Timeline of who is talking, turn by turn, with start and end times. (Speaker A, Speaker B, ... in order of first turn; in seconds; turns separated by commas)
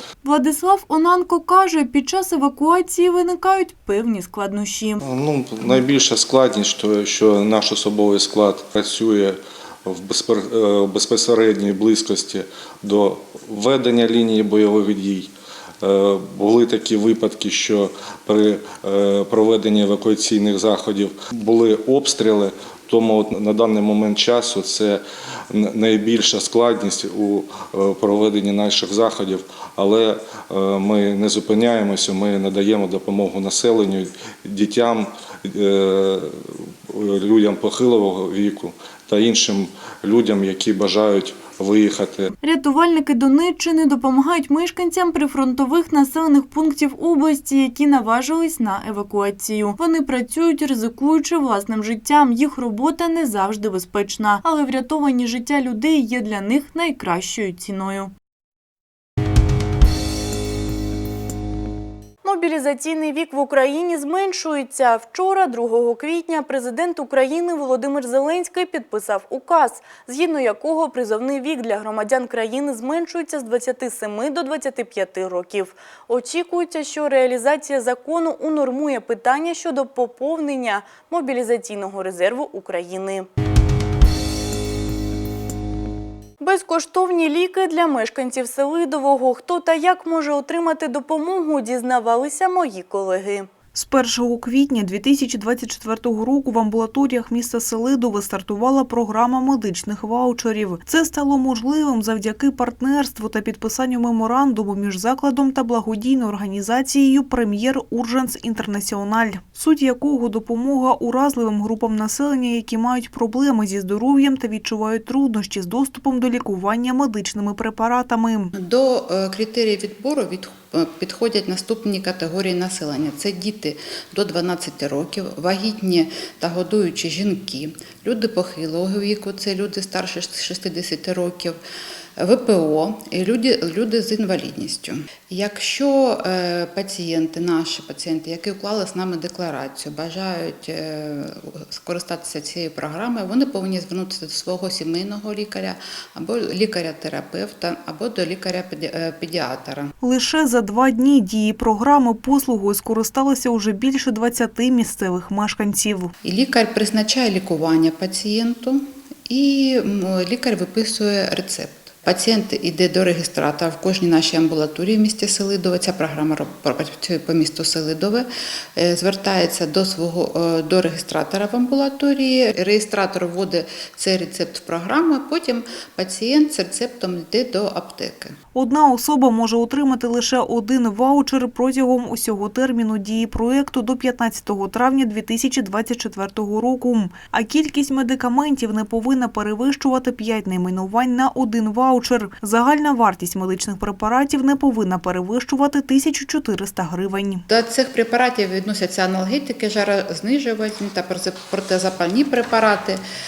Speaker A: 0.2-5.0, Speaker B: 5.0-42.3, Speaker A: 42.4-58.1, Speaker A: 62.2-83.3, Speaker A: 86.4-93.5, Speaker C: 93.7-118.5, Speaker D: 118.5-131.6, Speaker D: 132.2-149.9, Speaker C: 150.0-156.1, Speaker D: 156.2-178.4, Speaker C: 178.5-197.4, Speaker D: 197.5-203.0